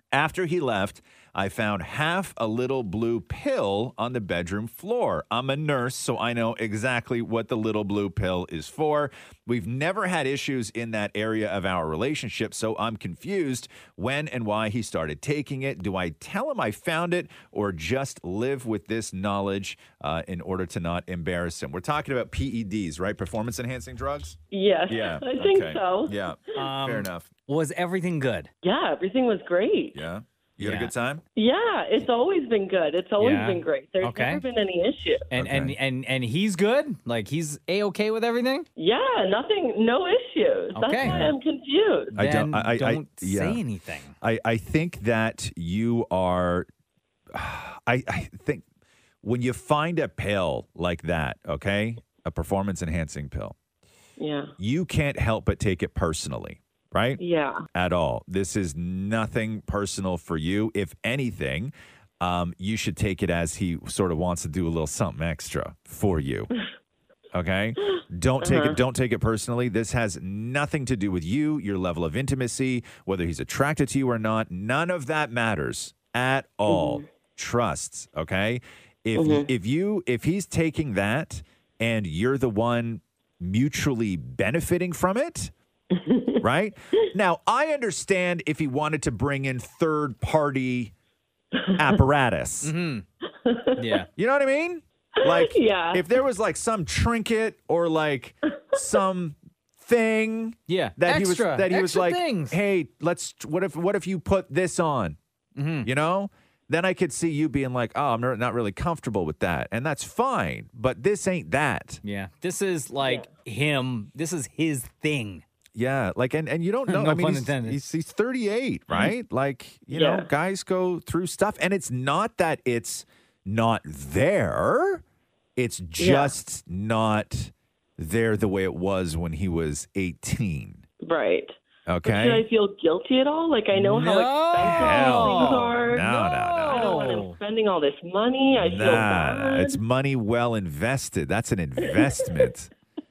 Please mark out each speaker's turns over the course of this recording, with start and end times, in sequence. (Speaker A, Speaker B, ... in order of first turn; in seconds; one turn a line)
Speaker A: 0.1-24.4
Speaker B: 24.5-26.1
Speaker A: 24.9-27.3
Speaker C: 26.5-28.5
Speaker B: 28.6-30.0
Speaker A: 29.9-31.2
Speaker C: 30.6-30.9
Speaker B: 31.4-35.2
Speaker C: 33.2-34.4
Speaker C: 35.3-38.6
Speaker A: 35.3-35.8
Speaker B: 38.8-42.1
Speaker C: 40.7-41.3
Speaker A: 41.0-41.3
Speaker A: 42.1-43.6
Speaker C: 42.1-44.1
Speaker A: 44.2-46.7
Speaker A: 47.3-48.6
Speaker A: 49.2-53.5
Speaker B: 54.2-54.5
Speaker A: 54.6-57.2
Speaker B: 57.2-57.6
Speaker A: 57.7-66.5
Speaker A: 67.3-85.5
Speaker B: 68.4-68.8
Speaker B: 76.7-77.0
Speaker B: 79.2-79.5
Speaker B: 85.9-86.4
Speaker A: 86.4-90.9
Speaker B: 91.5-92.0
Speaker A: 91.8-92.7
Speaker C: 92.6-93.0
Speaker B: 93.4-93.8
Speaker C: 93.8-94.1
Speaker A: 94.2-105.2
Speaker B: 95.2-96.1
Speaker C: 100.7-102.6
Speaker C: 105.5-105.9
Speaker A: 105.8-112.0
Speaker C: 112.0-115.4
Speaker B: 113.0-113.3
Speaker A: 115.7-125.0
Speaker C: 116.9-117.8
Speaker B: 119.9-120.3
Speaker A: 125.5-130.8
Speaker B: 126.0-126.3
Speaker B: 131.0-131.5
Speaker A: 131.9-132.4
Speaker B: 132.0-139.8
Speaker C: 133.8-137.4
Speaker A: 134.6-137.1
Speaker A: 138.6-142.7
Speaker B: 141.8-142.4